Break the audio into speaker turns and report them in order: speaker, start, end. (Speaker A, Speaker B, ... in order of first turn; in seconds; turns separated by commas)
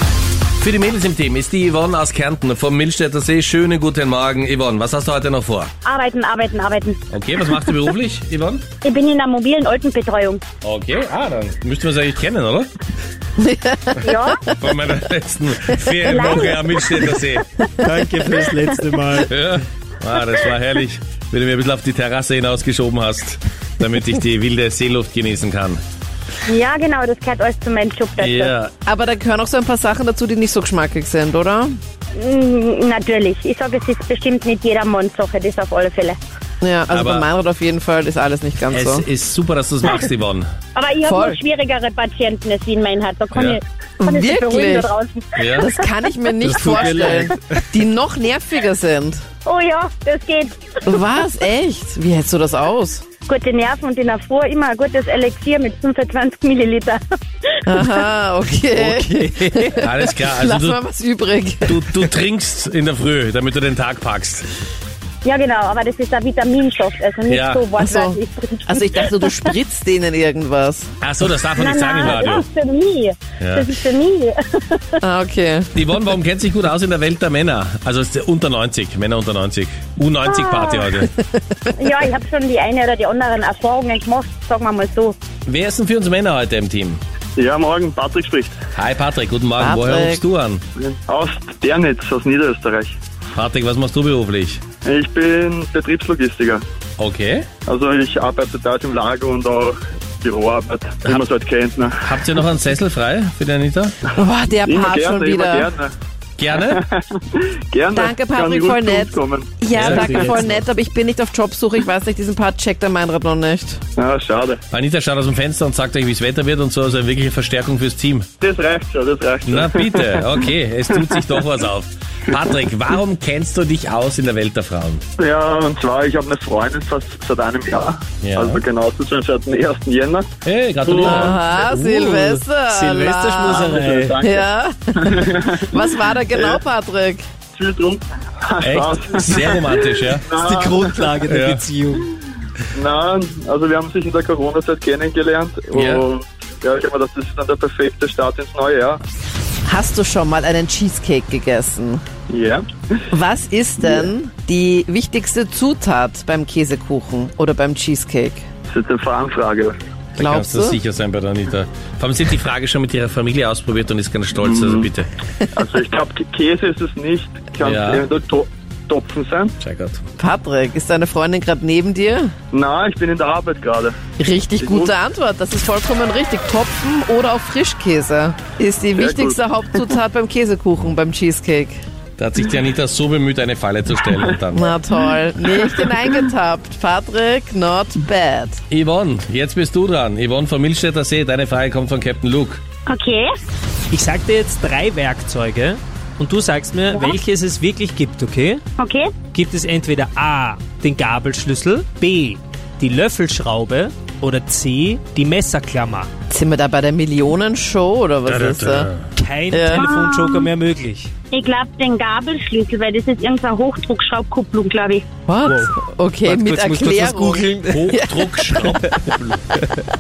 Speaker A: 0.6-5.7, Speaker B: 5.8-7.0, Speaker A: 7.1-8.7, Speaker B: 8.8-10.4, Speaker A: 10.6-12.7, Speaker C: 13.4-14.3, Speaker B: 14.0-14.4, Speaker A: 14.6-17.5, Speaker B: 16.0-17.6, Speaker D: 17.8-19.3, Speaker A: 19.3-25.8, Speaker B: 26.4-28.5, Speaker A: 28.2-28.7, Speaker C: 28.9-31.8, Speaker B: 32.2-36.2, Speaker C: 36.6-39.1, Speaker A: 36.9-37.3, Speaker A: 38.7-40.5, Speaker B: 40.8-45.9, Speaker C: 41.0-41.4, Speaker A: 43.3-43.6, Speaker C: 44.0-44.9, Speaker A: 45.4-45.7, Speaker C: 45.6-49.2, Speaker D: 46.4-47.4, Speaker B: 49.5-51.0, Speaker C: 50.9-53.0, Speaker B: 53.3-57.0, Speaker C: 57.7-62.0, Speaker D: 58.7-59.9, Speaker A: 59.8-60.8, Speaker A: 61.7-64.5, Speaker B: 65.2-69.5, Speaker A: 67.3-67.7, Speaker C: 67.8-70.9, Speaker A: 71.0-72.5, Speaker B: 71.6-75.0, Speaker A: 73.4-73.7, Speaker C: 75.0-75.7, Speaker A: 75.8-81.1, Speaker B: 80.3-80.9, Speaker B: 81.7-85.2, Speaker A: 85.5-87.0, Speaker E: 87.4-88.5, Speaker A: 88.8-90.6, Speaker C: 89.6-90.2, Speaker E: 90.8-93.0, Speaker A: 93.3-94.6, Speaker E: 94.8-96.6, Speaker A: 97.0-97.5, Speaker E: 97.7-102.0, Speaker A: 102.0-103.9, Speaker C: 104.2-105.7, Speaker E: 104.7-105.9, Speaker A: 106.4-106.8, Speaker E: 106.5-110.4, Speaker C: 107.9-113.8, Speaker D: 109.7-110.7, Speaker A: 109.7-110.0, Speaker E: 114.0-114.6, Speaker A: 114.7-118.3, Speaker E: 118.4-120.4, Speaker A: 119.5-125.0, Speaker E: 125.2-130.3, Speaker A: 128.2-128.6, Speaker A: 130.4-131.4, Speaker E: 130.8-131.4, Speaker C: 131.0-137.2, Speaker D: 131.6-134.2, Speaker E: 133.4-134.5, Speaker E: 135.0-136.6, Speaker E: 137.5-141.2, Speaker A: 138.6-140.3, Speaker D: 140.4-142.1, Speaker A: 141.3-141.6, Speaker E: 142.7-149.0, Speaker A: 145.7-146.1, Speaker C: 149.7-152.0, Speaker E: 152.3-153.1, Speaker C: 153.1-158.4, Speaker E: 153.8-154.1, Speaker E: 158.7-159.8, Speaker A: 160.2-165.1, Speaker C: 160.2-160.8, Speaker E: 164.4-164.9, Speaker E: 165.5-169.6, Speaker A: 167.6-168.1, Speaker A: 169.6-170.0, Speaker C: 170.2-172.3, Speaker E: 172.5-173.9, Speaker C: 174.2-181.8, Speaker E: 174.6-174.9, Speaker E: 179.0-179.4, Speaker A: 182.2-184.7, Speaker C: 184.5-188.6, Speaker A: 188.7-192.6, Speaker B: 192.9-193.3, Speaker D: 193.9-198.6, Speaker B: 198.8-199.1, Speaker D: 199.3-206.1, Speaker C: 206.3-208.9, Speaker A: 208.3-209.1, Speaker D: 209.2-211.1, Speaker C: 209.5-209.9, Speaker B: 209.8-210.5, Speaker B: 211.3-215.1, Speaker C: 215.3-218.9, Speaker D: 215.5-215.7, Speaker D: 216.2-217.8, Speaker A: 217.7-218.8, Speaker D: 218.9-219.9